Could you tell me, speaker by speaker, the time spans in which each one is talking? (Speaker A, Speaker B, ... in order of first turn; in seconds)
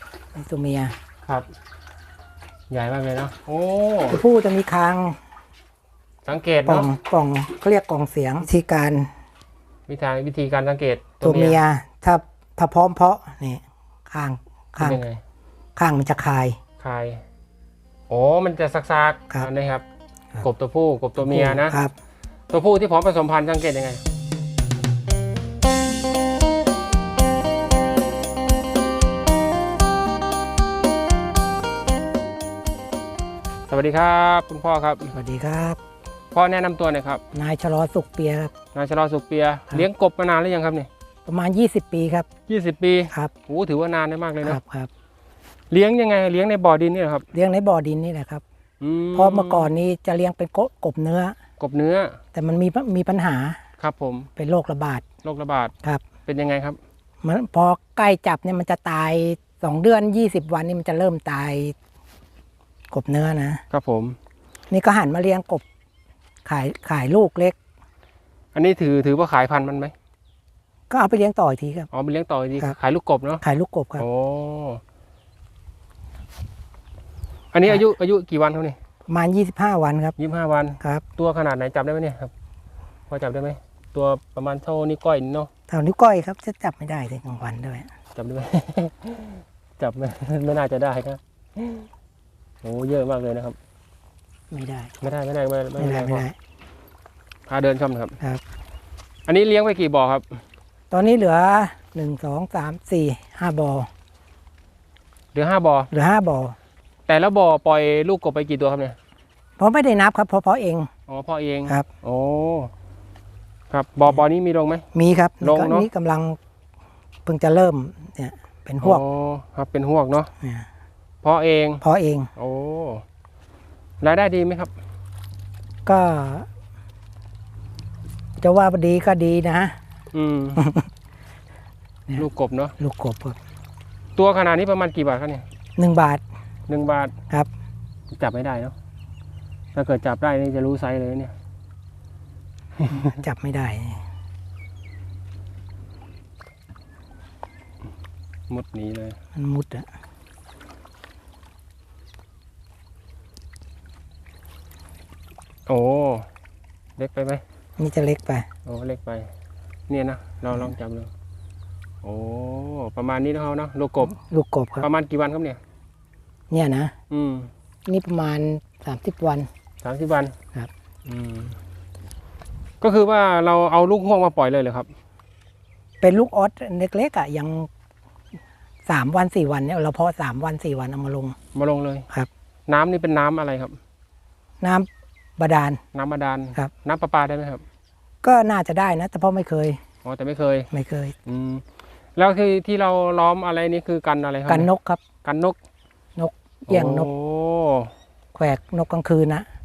Speaker A: 0.3-0.9, 4.1-5.2, 6.7-9.1, 11.2-15.0, 15.8-16.6, 21.2-21.9, 35.1-35.8, 37.3-38.5, 41.3-42.3, 44.4-44.9, 47.3-48.4, 49.1-51.4, 52.3-53.6, 54.4-55.0, 57.2-61.8, 62.9-63.6, 64.7-65.6, 66.5-67.6, 70.9-71.9, 73.4-74.0, 79.1-80.2, 85.7-87.9, 94.5-94.9, 95.8-96.4, 100.9-103.9, 105.9-106.6, 109.6-110.9, 114.9-116.4, 117.3-119.0, 121.8-122.3, 125.9-126.5, 128.4-129.8, 130.6-130.9, 132.8-133.4, 135.8-136.2, 143.1-144.0, 149.3-149.9, 157.8-158.5, 164.1-164.9, 166.5-166.9, 167.9-169.5, 176.0-177.7, 178.9-181.4, 184.6-185.8, 188.2-189.8, 190.7-191.1, 194.5-195.0, 196.2-197.1, 198.3-199.5
Speaker B: 2.7-4.2, 6.2-6.9, 9.9-11.6, 14.8-15.2, 16.8-17.2, 18.1-19.8, 20.4-21.8, 22.5-24.0, 33.7-35.1, 36.3-37.2, 38.8-40.9, 42.5-44.6, 45.7-47.3, 48.8-49.7, 51.6-52.2, 53.8-54.3, 55.2-55.7, 56.3-56.8, 63.7-64.2, 68.5-69.9, 71.9-73.4, 74.0-74.8, 77.5-78.8, 80.2-82.3, 83.1-85.5, 88.2-91.9, 92.6-93.6, 95.0-96.3, 97.5-98.2, 99.3-100.4, 105.3-105.9, 107.1-109.0, 111.1-112.7, 113.7-114.8, 115.4-115.9, 118.8-120.3, 121.2-121.8, 122.4-123.0, 124.0-124.7, 130.1-130.6, 132.2-132.7, 134.2-135.4, 136.7-137.1, 138.1-138.7, 139.8-141.3, 142.8-143.1, 148.5-149.2, 155.7-156.3, 157.0-157.4, 158.7-159.3, 159.9-161.1, 162.0-164.2, 164.8-165.6, 167.1-167.5, 169.8-170.3, 171.1-171.6, 172.8-174.9, 181.5-182.1, 182.7-183.8, 185.9-187.6, 190.0-190.7, 191.3-191.7, 192.2-194.7, 195.2-195.6, 196.7-197.9